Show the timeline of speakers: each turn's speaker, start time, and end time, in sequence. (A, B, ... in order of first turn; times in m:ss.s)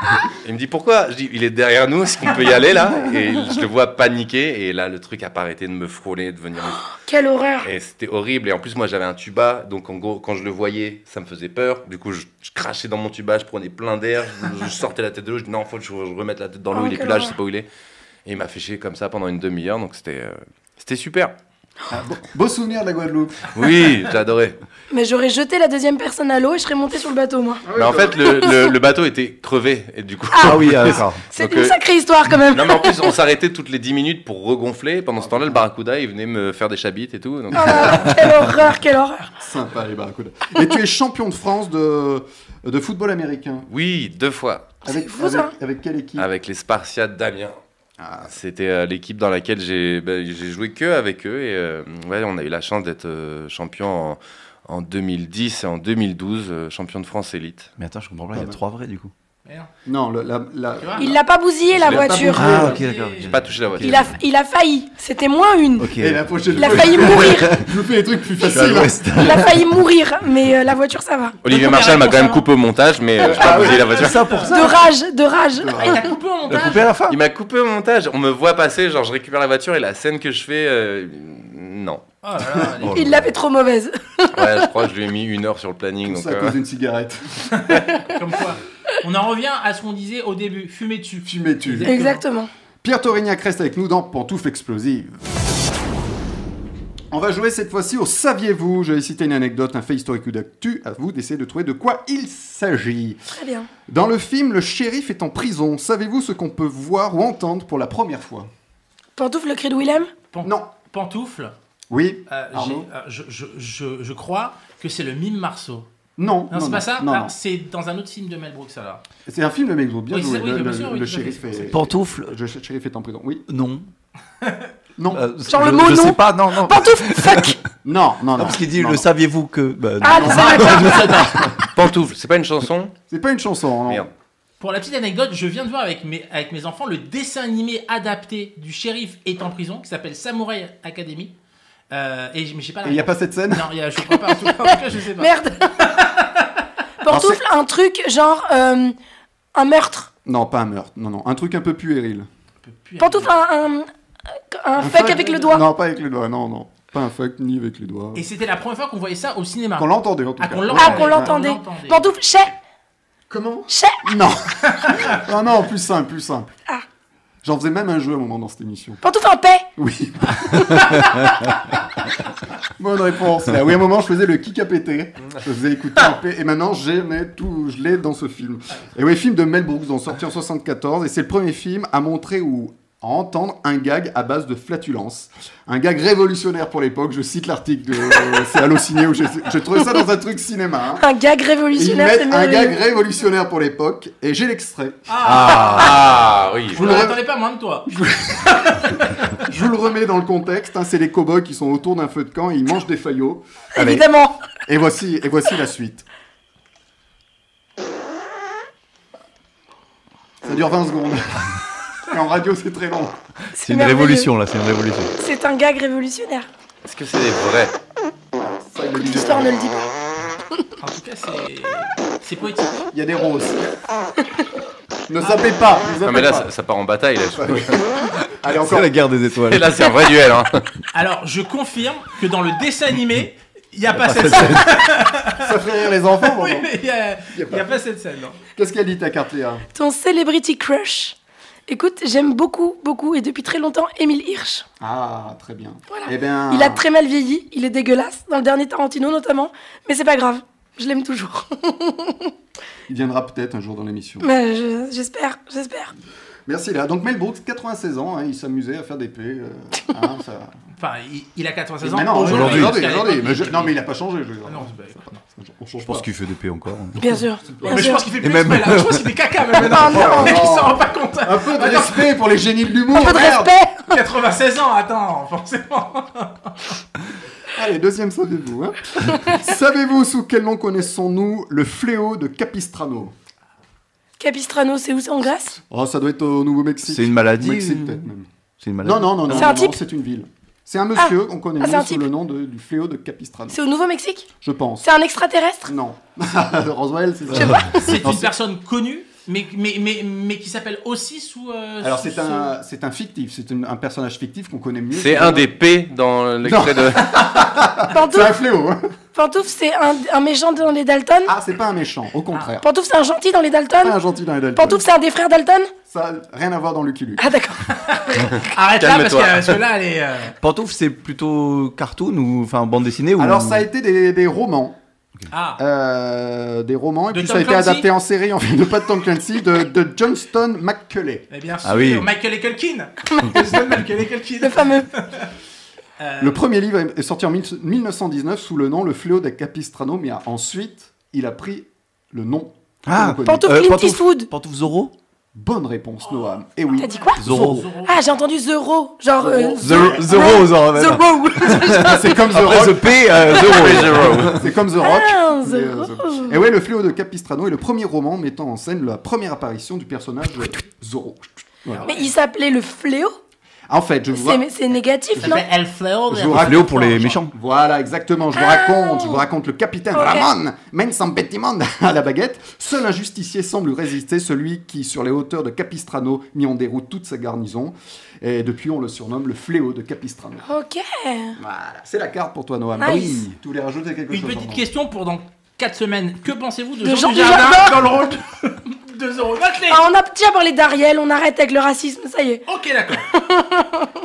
0:00.2-0:06.9 A
0:07.0-0:07.7 B
0:07.6-0:17.6 A
0:16.7-0:17.3 B
0:18.2-0:21.3 A
0:21.9-0:23.5 C
0:23.5-0:24.6 A
0:24.9-0:27.6 B
0:27.6-0:28.4 C
0:27.8-0:31.8 A
0:30.3-0:33.1 B
0:30.4-0:31.2 D
0:32.5-0:38.2 A
0:35.2-0:35.6 C
0:37.5-0:39.3 B
0:37.7-0:37.9 C
0:39.4-0:43.7 C
0:43.7-0:44.7 A
0:44.8-0:45.5 B
0:44.8-0:46.3 C
0:46.2-0:47.5 A
0:48.0-0:48.3 C
0:48.3-0:57.7 A
0:57.8-0:59.1 D
0:58.3-0:58.6 C
0:59.8-1:01.2 C
1:00.8-1:01.1 E
1:01.0-1:02.6 B
1:01.7-1:02.8 C
1:02.3-1:04.1 D
1:02.6-1:03.3 E
1:03.2-1:04.0 A
1:03.8-1:05.9 B
1:05.8-1:07.7 D
1:06.0-1:09.0 C
1:06.6-1:07.5 B
1:08.4-1:09.6 D
1:09.2-1:11.4 B
1:11.4-1:14.2 A
1:11.5-1:12.5 E
1:13.2-1:14.1 C
1:13.3-1:14.8 D
1:13.5-1:14.5 E
1:14.5-1:16.0 B
1:15.6-1:16.1 C
1:15.8-1:16.9 E
1:16.5-1:17.2 D
1:17.1-1:22.0 A
1:22.2-1:23.1 E
1:22.8-1:23.3 D
1:22.9-1:24.6 B
1:24.3-1:26.6 A
1:26.0-1:27.6 C
1:27.5-1:32.2 E
1:31.2-1:31.9 C
1:31.8-1:32.5 B
1:32.8-1:35.2 C
1:37.1-1:43.2 C
1:43.3-1:43.7 B
1:43.9-1:48.5 C
1:49.2-1:50.1 B
1:50.3-1:51.5 E
1:50.4-1:50.7 C
1:51.9-1:52.9 C
1:52.3-1:55.9 E
1:56.2-1:57.3 C
1:56.5-1:59.0 E
1:59.3-2:03.4 C
2:00.1-2:01.8 E
2:01.7-2:02.3 D
2:03.5-2:03.9 D
2:04.4-2:04.7 E
2:05.0-2:05.2 C
2:05.1-2:07.5 D
2:05.5-2:07.6 B
2:07.8-2:09.1 C
2:08.4-2:11.7 D
2:10.0-2:11.3 B
2:10.1-2:11.5 C
2:11.7-2:12.9 A
2:13.1-2:14.1 C
2:14.6-2:21.3 E
2:21.9-2:26.6 E
2:22.8-2:23.7 C
2:25.2-2:25.8 B
2:27.0-2:28.9 B
2:27.1-2:27.4 C
2:29.5-2:30.1 B
2:30.2-2:32.3 C
2:32.6-2:33.3 E
2:33.0-2:33.9 B
2:34.5-2:35.6 B
2:34.8-2:38.2 C
2:38.1-2:42.1 E
2:39.8-2:41.4 C
2:40.7-2:42.5 B
2:43.3-2:46.5 C
2:43.7-2:44.1 B
2:47.4-2:49.0 C
2:49.0-2:49.6 B
2:49.8-2:51.0 C
2:50.6-2:51.2 B
2:52.6-3:11.0 C
3:11.0-3:12.8 B
3:11.7-3:15.9 C
3:15.1-3:16.1 E
3:15.2-3:16.8 A
3:16.7-3:17.9 E
3:16.8-3:17.2 C
3:17.8-3:18.8 C
3:18.5-3:19.4 E
3:19.4-3:24.0 C
3:23.8-3:24.4 B
3:24.7-3:26.0 C
3:30.4-3:33.1 C
3:33.6-3:34.3 B
3:33.6-3:35.1 D
3:35.2-3:36.5 B
3:36.8-3:37.8 A
3:38.4-3:39.6 C
3:38.9-3:39.9 B
3:40.8-3:42.8 E
3:42.9-3:43.7 C
3:45.1-3:46.5 C
3:46.0-3:47.9 A
3:47.3-3:48.9 C
3:48.4-3:49.8 D
3:49.3-3:50.6 A
3:50.9-3:55.6 E
3:53.9-3:54.7 D
3:55.3-3:56.7 C
3:56.2-3:58.4 E
3:57.3-3:57.8 C
3:58.5-3:59.6 C
3:59.7-4:01.2 B
4:01.7-4:04.6 B
4:04.8-4:06.8 C
4:05.9-4:12.3 B
4:12.9-4:14.3 C
4:14.2-4:15.9 B
4:16.5-4:20.5 C
4:20.8-4:23.8 E
4:21.8-4:24.8 C
4:22.2-4:22.9 D
4:24.4-4:25.2 E
4:25.3-4:26.1 C
4:25.8-4:27.2 D
4:27.0-4:28.0 B
4:27.4-4:28.0 C
4:27.6-4:32.2 E
4:28.1-4:29.9 D
4:29.7-4:30.4 B
4:29.8-4:33.5 C
4:32.9-4:34.0 B
4:33.8-4:36.6 E
4:37.5-4:43.1 C
4:44.2-4:45.6 B
4:45.7-4:48.3 C
4:46.8-4:48.0 D
4:48.6-4:49.6 D
4:48.8-4:53.6 C
4:49.3-4:49.8 B
4:51.0-4:52.0 B
4:53.5-4:54.3 B
4:54.4-4:54.9 C
4:54.8-4:55.7 B
4:55.6-4:58.3 C
4:57.3-4:58.1 D
4:57.4-4:58.0 B
4:57.8-5:02.5 E
5:01.8-5:05.5 C
5:04.9-5:07.3 A
5:06.4-5:08.9 C
5:07.9-5:08.4 B
5:09.1-5:11.3 B
5:11.2-5:12.6 C
5:12.6-5:14.0 B
5:13.8-5:14.9 C
5:14.5-5:15.7 B
5:15.9-5:17.2 C
5:17.2-5:17.6 B
5:17.7-5:20.3 E
5:18.3-5:19.6 A
5:20.4-5:23.6 D
5:23.2-5:24.8 C
5:25.3-5:25.6 E
5:25.6-5:31.2 C
5:27.1-5:27.9 E
5:31.3-5:35.3 E
5:31.6-5:32.1 D
5:33.1-5:33.3 B
5:34.4-5:34.9 B
5:36.0-5:36.4 E
5:36.2-5:43.6 C
5:42.9-5:44.9 D
5:43.2-5:44.3 B
5:45.3-5:47.7 C
5:46.8-5:47.2 B
5:46.8-5:48.0 E
5:47.2-5:47.7 D
5:47.8-5:52.1 B
5:49.2-5:50.5 C
5:49.6-5:54.5 D
5:51.7-6:01.9 C
5:53.3-5:54.4 A
5:54.8-5:56.4 B
6:01.7-6:02.1 E
6:01.8-6:03.2 B
6:03.7-6:04.4 C
6:04.1-6:05.4 B
6:05.2-6:07.2 E
6:06.1-6:20.5 C
6:06.2-6:07.3 D
6:08.4-6:09.2 B
6:09.9-6:10.3 B
6:20.5-6:21.4 B
6:21.4-6:24.6 C
6:22.8-6:23.2 B
6:22.8-6:23.3 D
6:24.1-6:29.8 E
6:26.8-6:27.8 B
6:29.7-6:32.4 B
6:32.5-6:33.1 E
6:33.1-6:33.9 B